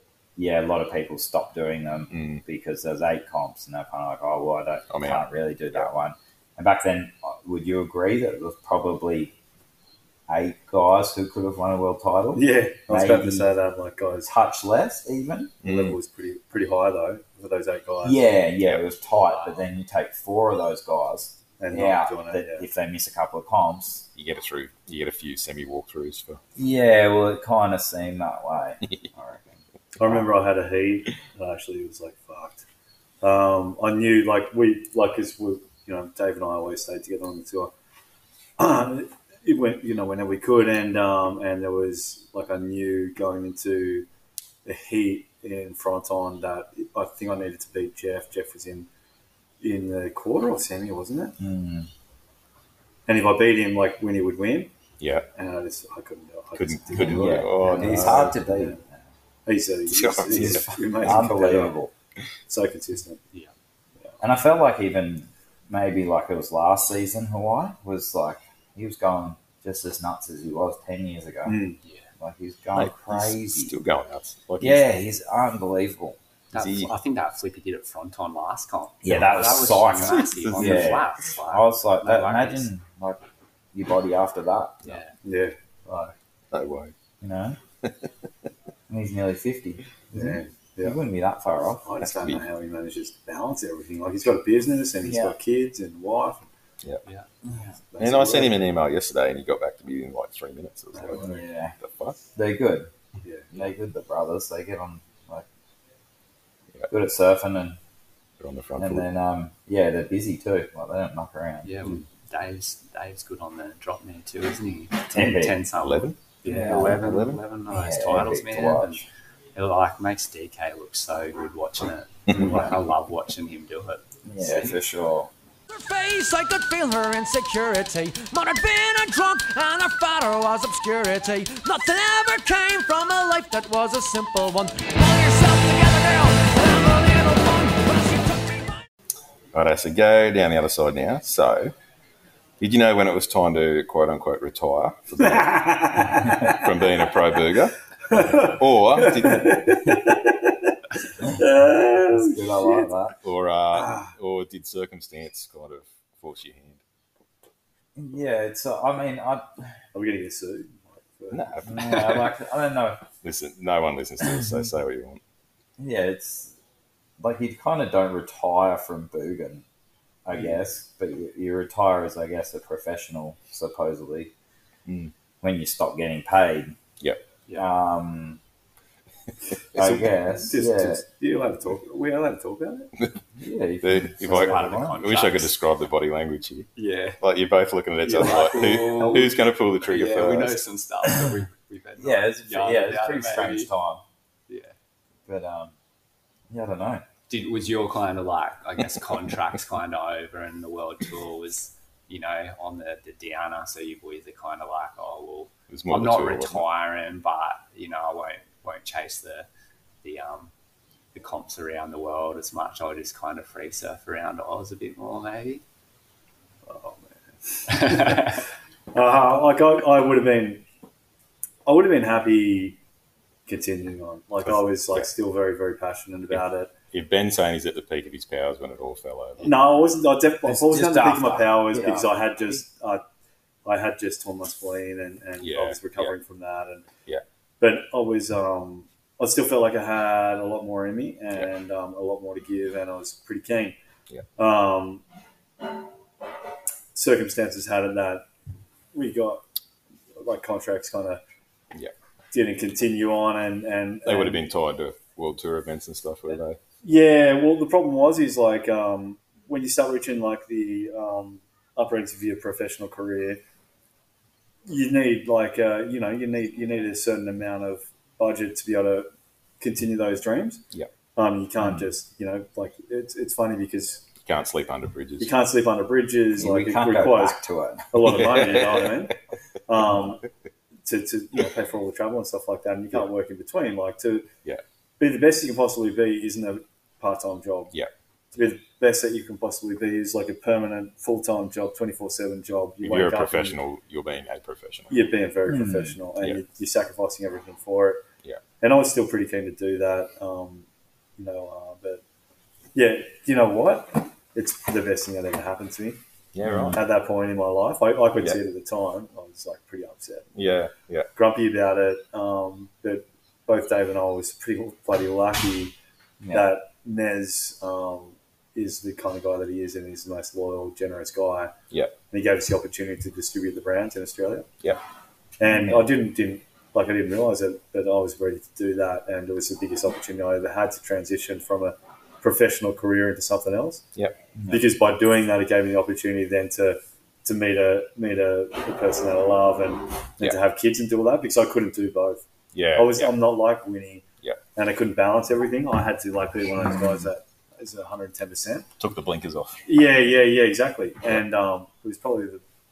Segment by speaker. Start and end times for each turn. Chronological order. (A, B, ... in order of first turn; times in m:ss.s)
0:00.4-0:09.3 A
0:02.1-0:02.4 B
0:04.9-0:05.8 B
0:10.3-0:13.5 A
0:12.3-0:14.3 C
0:14.2-0:15.6 A
0:15.6-0:16.0 B
0:15.6-0:18.2 C
0:18.0-0:24.1 A
0:19.2-0:19.6 D
0:21.6-0:22.6 C
0:24.2-0:26.4 B
0:26.6-0:30.2 A
0:30.0-0:32.6 C
0:33.2-0:37.7 C
0:38.6-0:44.1 C
0:44.6-0:48.9 C
0:49.6-0:51.4 C
0:51.4-0:51.9 A
0:53.1-0:54.7 C
0:55.0-0:55.3 B
0:55.3-0:58.8 C
0:56.6-0:58.4 B
0:57.0-0:59.0 A
0:59.4-1:01.7 C
0:59.9-1:01.1 B
1:00.3-1:01.9 A
1:02.5-1:03.2 C
1:04.2-1:11.6 A
1:11.4-1:11.8 C
1:11.8-1:12.1 D
1:12.2-1:13.8 A
1:12.7-1:14.9 B
1:14.6-1:16.2 A
1:16.5-1:22.7 D
1:16.5-1:16.9 B
1:19.0-1:24.8 A
1:19.7-1:21.0 B
1:24.8-1:25.1 D
1:25.2-1:25.6 C
1:25.8-1:26.1 A
1:26.5-1:26.9 B
1:27.2-1:27.6 A
1:28.9-1:31.9 A
1:30.1-1:31.0 C
1:31.8-1:36.5 C
1:32.0-1:32.4 B
1:35.0-1:35.4 A
1:37.4-1:37.7 A
1:37.9-1:38.6 C
1:38.0-1:42.2 B
1:40.9-1:41.4 C
1:41.2-1:41.7 A
1:42.3-1:42.9 A
1:43.2-1:43.5 C
1:43.5-1:45.5 A
1:46.9-1:47.8 A
1:48.4-1:49.0 B
1:48.8-1:51.8 A
1:51.6-1:59.0 D
1:55.1-1:55.6 A
1:55.8-1:57.4 B
1:56.4-1:57.1 A
1:57.7-1:59.0 A
1:59.5-2:04.8 D
2:02.3-2:02.6 B
2:04.2-2:05.3 A
2:05.7-2:18.8 E
2:19.5-2:21.7 B
2:22.6-2:29.8 B
2:25.2-2:26.6 C
2:28.1-2:30.6 C
2:31.2-2:32.9 C
2:32.1-2:33.2 A
2:33.2-2:36.8 B
2:38.0-2:39.7 A
2:39.9-2:41.5 C
2:41.3-2:42.3 B
2:41.6-2:43.0 A
2:43.2-2:45.2 B
2:45.8-2:46.5 A
2:47.2-2:49.6 A
2:50.2-2:54.3 A
2:54.8-2:55.1 B
2:55.4-2:56.8 A
2:57.5-2:58.4 A
2:59.7-3:01.0 A
2:59.8-3:02.9 C
3:03.4-3:05.0 A
3:03.8-3:10.6 B
3:04.2-3:05.5 D
3:06.8-3:07.2 D
3:08.0-3:13.7 D
3:09.0-3:09.2 C
3:12.0-3:14.0 A
3:14.5-3:14.7 D
3:15.3-3:15.7 A
3:16.5-3:17.0 A
3:17.3-3:29.5 D
3:25.7-3:26.6 B
3:30.0-3:30.5 D
3:31.1-3:35.6 D
3:36.6-3:38.4 C
3:37.7-3:38.4 D
3:38.9-3:40.6 C
3:41.6-3:42.8 C
3:43.5-3:46.7 C
3:44.4-3:45.1 B
3:46.3-3:49.6 B
3:49.4-3:53.0 C
3:50.4-3:52.6 A
3:53.6-3:56.9 C
3:55.4-3:56.1 B
3:57.6-4:03.8 C
4:04.4-4:05.0 C
4:06.9-4:08.2 C
4:08.9-4:09.4 C
4:10.2-4:11.2 C
4:12.3-4:14.4 C
4:14.0-4:16.6 B
4:16.8-4:23.4 C
4:24.6-4:29.1 C
4:29.6-4:30.6 C
4:31.2-4:34.1 C
4:34.2-4:35.3 B
4:35.2-4:37.4 C
4:36.4-4:38.2 A
4:37.9-4:39.2 C
4:38.0-4:39.0 B
4:39.7-4:40.2 C
4:40.8-4:44.3 C
4:45.0-4:47.7 C
4:48.3-4:53.6 C
4:52.8-4:55.1 B
4:54.9-4:58.0 C
4:55.4-4:56.0 A
4:58.6-5:02.0 C
5:02.7-5:06.0 C
5:06.3-5:06.8 B
5:06.4-5:06.8 A
5:06.7-5:10.3 C
5:10.3-5:11.1 B
5:11.2-5:15.7 C
5:16.2-5:16.5 A
5:16.3-5:21.5 C
5:22.1-5:24.5 C
5:25.4-5:33.8 C
5:25.4-5:25.9 A
5:34.4-5:34.7 A
5:34.5-5:42.2 C
5:42.5-5:43.1 B
5:42.7-5:48.7 C
5:46.6-5:47.1 A
5:48.8-5:49.6 B
5:49.6-5:52.4 C